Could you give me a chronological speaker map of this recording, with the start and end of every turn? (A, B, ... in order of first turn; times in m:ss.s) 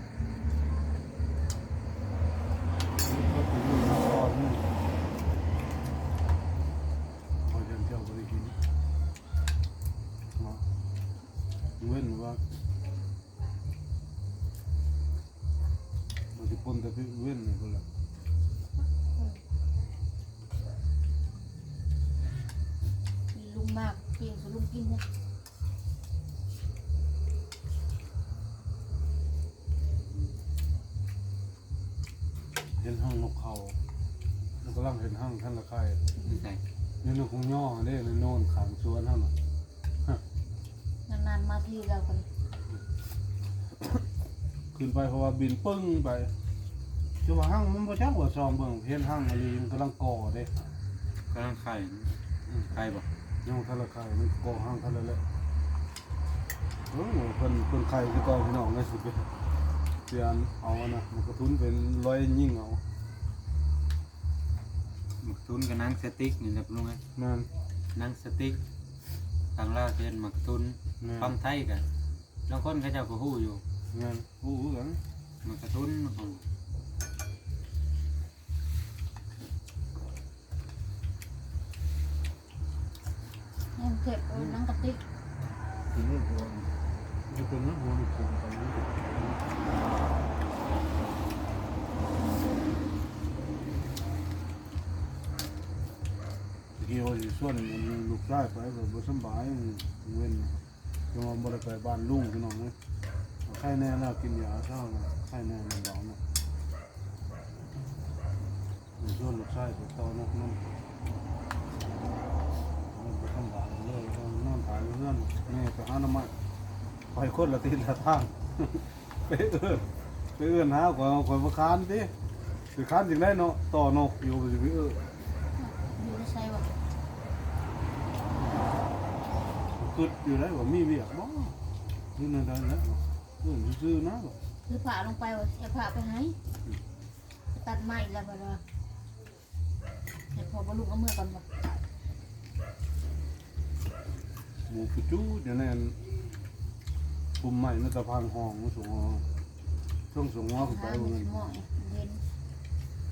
0:03.0-0:04.8 A
0:07.4-0:08.6 A
0:10.3-0:10.6 A
0:11.8-0:12.4 A
0:16.3-0:17.8 A
0:23.3-0:25.0 B
0:32.8-0:33.8 A
0:34.6-0:36.0 A
0:36.2-0:36.6 C
0:37.0-0:39.3 A
0:41.1-0:42.2 B
0:44.7-0:46.3 A
0:47.2-0:50.5 A
0:51.3-0:52.1 C
0:52.7-0:53.1 C
0:53.4-0:55.2 A
0:56.9-0:59.3 A
1:00.1-1:02.8 A
1:05.2-1:07.0 C
1:07.2-1:07.5 A
1:07.9-1:08.6 C
1:09.5-1:11.8 C
1:11.0-1:11.3 A
1:12.5-1:13.6 C
1:13.9-1:15.0 A
1:15.4-1:16.4 C
1:23.7-1:25.0 B
1:25.9-1:26.7 A
1:27.3-1:29.5 A
1:36.8-1:40.6 A
1:41.1-1:42.8 A
1:43.4-1:46.2 A
1:49.0-1:50.7 A
1:52.9-1:56.3 A
1:57.1-2:02.1 A
2:02.7-2:05.0 A
2:05.6-2:06.7 B
2:09.8-2:11.5 A
2:12.2-2:14.4 A
2:14.6-2:16.4 B
2:17.5-2:18.6 B
2:20.3-2:21.8 B
2:24.7-2:26.0 A
2:27.4-2:29.2 A
2:30.1-2:31.5 A
2:30.6-2:32.2 B